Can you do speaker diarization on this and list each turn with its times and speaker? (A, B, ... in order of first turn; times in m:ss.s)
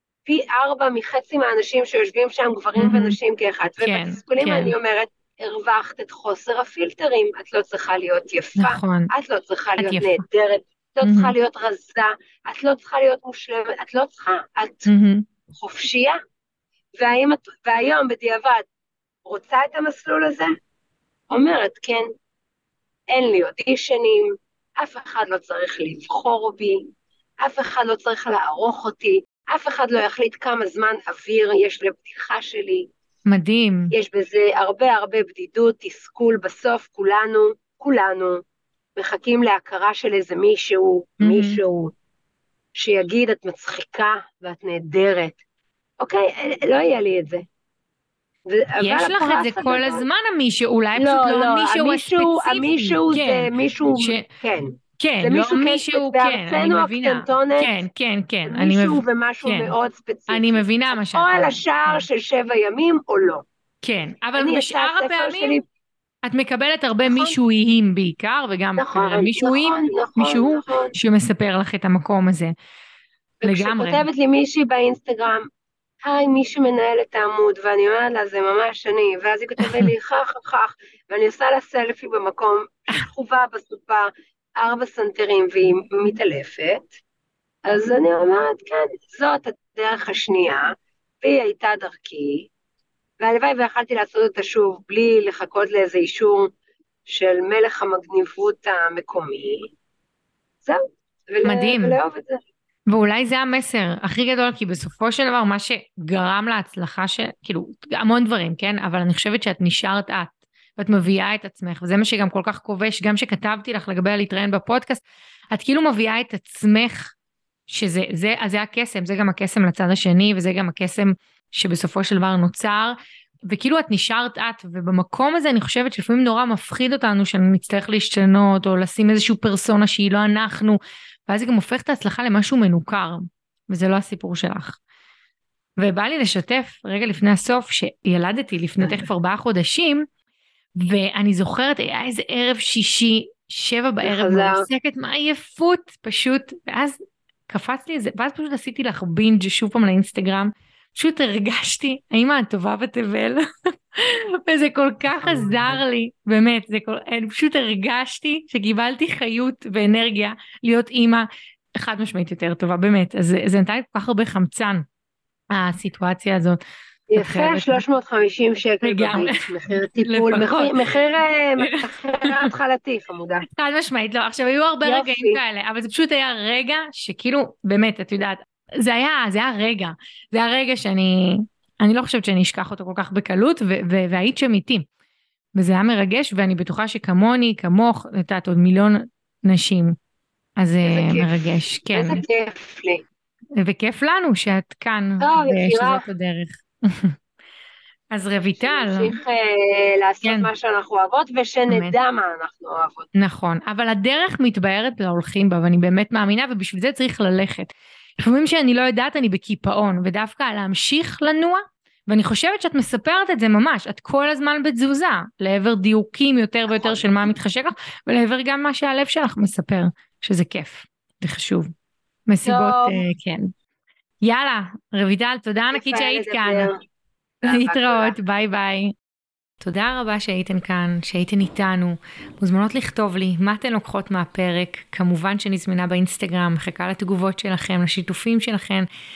0:00.3-0:14.9 A
0:02.8-0:03.2 B
0:03.8-0:04.7 B
0:08.6-0:09.1 B
0:09.8-0:10.2 B
0:11.0-0:11.3 B
0:14.9-0:15.3 B
0:15.5-0:16.2 A
0:17.0-0:18.7 A
0:19.2-0:20.5 A
0:21.3-0:22.0 A
0:23.1-0:26.9 A
0:27.4-0:32.9 A
0:33.3-0:33.9 B
0:33.9-0:38.4 A
0:39.0-0:41.9 A
0:41.2-0:41.6 B
0:42.8-0:45.4 A
0:46.0-0:47.4 A
0:48.5-0:50.0 A
0:48.8-0:54.3 B
0:51.0-0:57.7 A
0:55.0-0:59.7 B
0:58.5-1:03.4 A
1:00.3-1:02.0 B
1:03.8-1:05.6 B
1:04.4-1:05.6 A
1:06.2-1:12.5 B
1:07.1-1:07.4 A
1:08.8-1:11.0 A
1:13.4-1:15.5 A
1:13.4-1:14.0 B
1:16.0-1:26.9 A
1:19.6-1:19.9 B
1:27.7-1:30.7 A
1:31.2-1:32.5 A
1:33.2-1:36.5 A
1:37.1-1:39.7 A
1:40.6-1:42.4 A
1:41.4-1:42.0 B
1:42.9-1:57.2 B
1:57.7-2:03.0 B
2:03.5-2:14.8 B
2:15.8-2:20.1 B
2:18.8-2:19.1 A
2:20.8-2:33.4 B
2:24.0-2:24.7 A
2:34.0-2:44.9 B
2:35.1-2:35.8 A
2:45.5-2:46.6 B
2:47.1-2:53.4 A
2:47.2-2:47.8 B
2:48.8-2:49.4 B
2:50.0-2:50.8 B
2:51.6-2:52.5 B
2:53.5-3:04.9 B
2:54.8-2:55.4 A
3:05.6-3:10.0 B
3:10.6-3:12.2 B
3:10.8-3:11.3 A
3:11.9-3:13.0 A
3:13.6-3:17.2 B
3:15.2-3:16.0 A
3:18.1-3:19.2 B
3:18.6-3:23.1 A
3:20.2-3:20.5 B
3:21.7-3:22.0 B
3:23.1-3:41.7 B
3:36.7-3:37.3 A
3:42.3-3:43.5 B
3:42.4-3:43.0 A
3:44.2-3:46.7 B
3:45.7-3:46.8 A
3:47.4-3:48.2 A
3:47.4-3:48.9 B
3:49.6-3:58.9 B